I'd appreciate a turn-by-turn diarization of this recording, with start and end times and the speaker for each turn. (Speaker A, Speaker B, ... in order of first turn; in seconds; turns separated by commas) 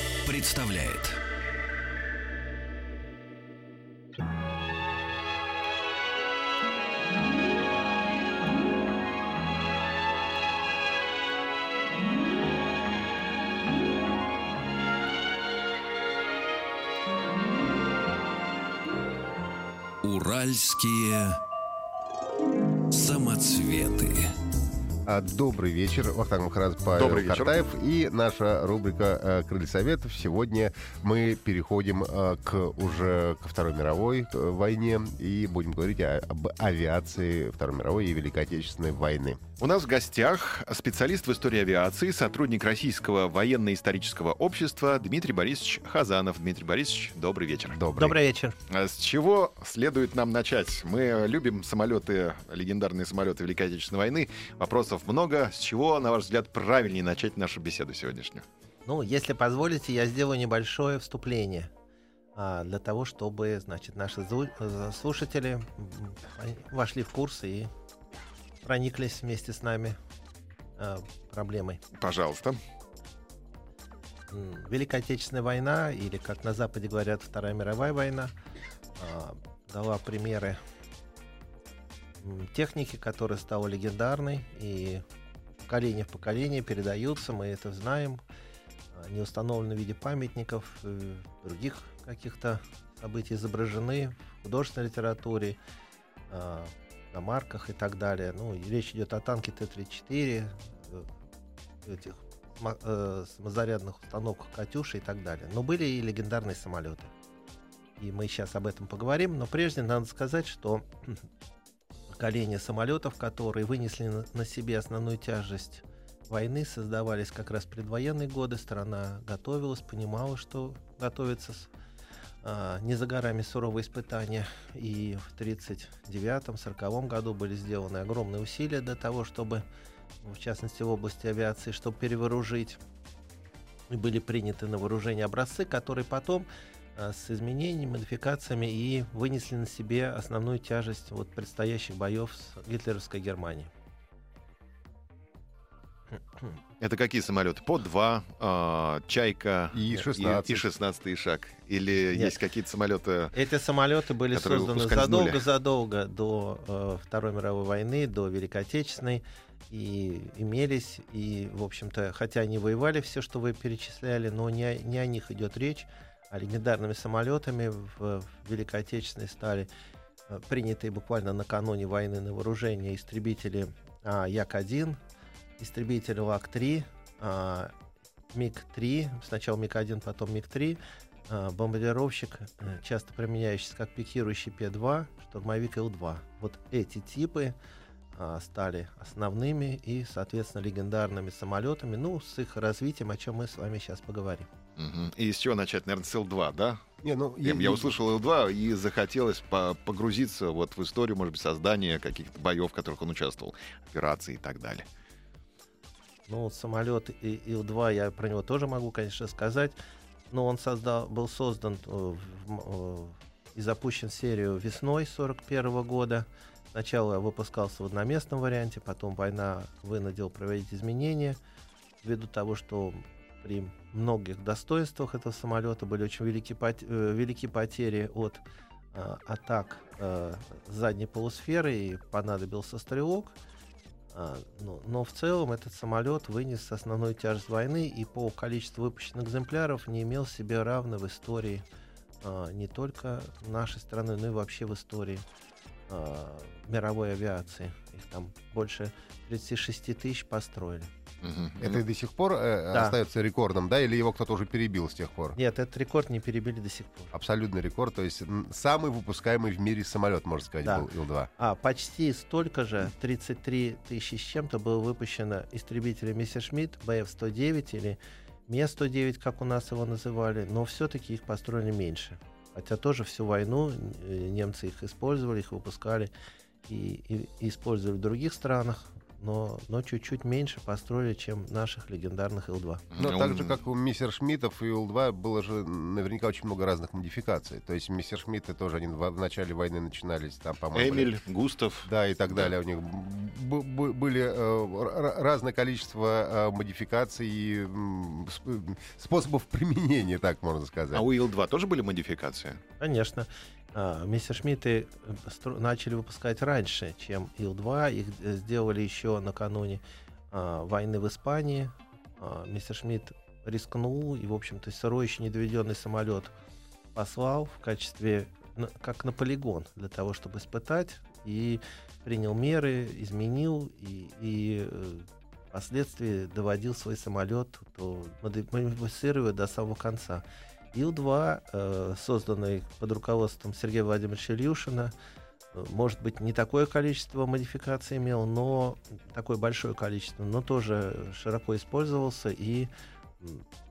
Speaker A: 0.2-1.2, Speaker A: 20.0-21.4, Speaker A: 22.9-24.3, Speaker B: 25.1-39.4, Speaker C: 26.9-27.6, Speaker C: 39.6-47.8, Speaker B: 47.7-48.2, Speaker D: 48.0-48.5, Speaker C: 48.7-58.4, Speaker D: 58.9-61.7, Speaker D: 62.3-67.7, Speaker D: 68.6-70.0, Speaker D: 70.8-71.8, Speaker C: 71.9-72.6, Speaker D: 74.3-78.3, Speaker D: 79.0-80.6, Speaker D: 82.2-85.0, Speaker D: 85.6-88.2, Speaker D: 88.9-95.6, Speaker D: 96.3-101.1, Speaker D: 101.8-107.1, Speaker D: 108.0-111.2, Speaker D: 112.1-121.7, Speaker D: 122.4-129.6, Speaker D: 130.2-132.8, Speaker D: 133.9-143.7, Speaker C: 146.8-153.3, Speaker B: 149.7-150.7, Speaker D: 153.3-169.7, Speaker C: 154.3-155.4, Speaker D: 170.3-175.0, Speaker D: 175.6-177.7, Speaker D: 178.3-187.6, Speaker D: 188.1-194.5, Speaker C: 194.8-196.8, Speaker B: 197.0-197.9, Speaker C: 197.4-204.8, Speaker D: 206.3-209.8, Speaker D: 210.3-221.4, Speaker D: 222.0-228.4, Speaker D: 228.9-233.3, Speaker D: 234.1-241.6, Speaker D: 242.2-245.2, Speaker D: 245.9-250.9, Speaker C: 251.2-251.8, Speaker B: 251.6-255.4, Speaker D: 255.3-257.1, Speaker B: 257.1-261.3, Speaker D: 260.6-276.1, Speaker D: 276.7-282.8, Speaker C: 282.9-283.6, Speaker B: 283.0-291.1, Speaker C: 290.7-292.5, Speaker B: 291.8-301.1, Speaker C: 300.9-302.6, Speaker D: 302.8-316.3, Speaker D: 316.9-334.9, Speaker D: 335.5-343.4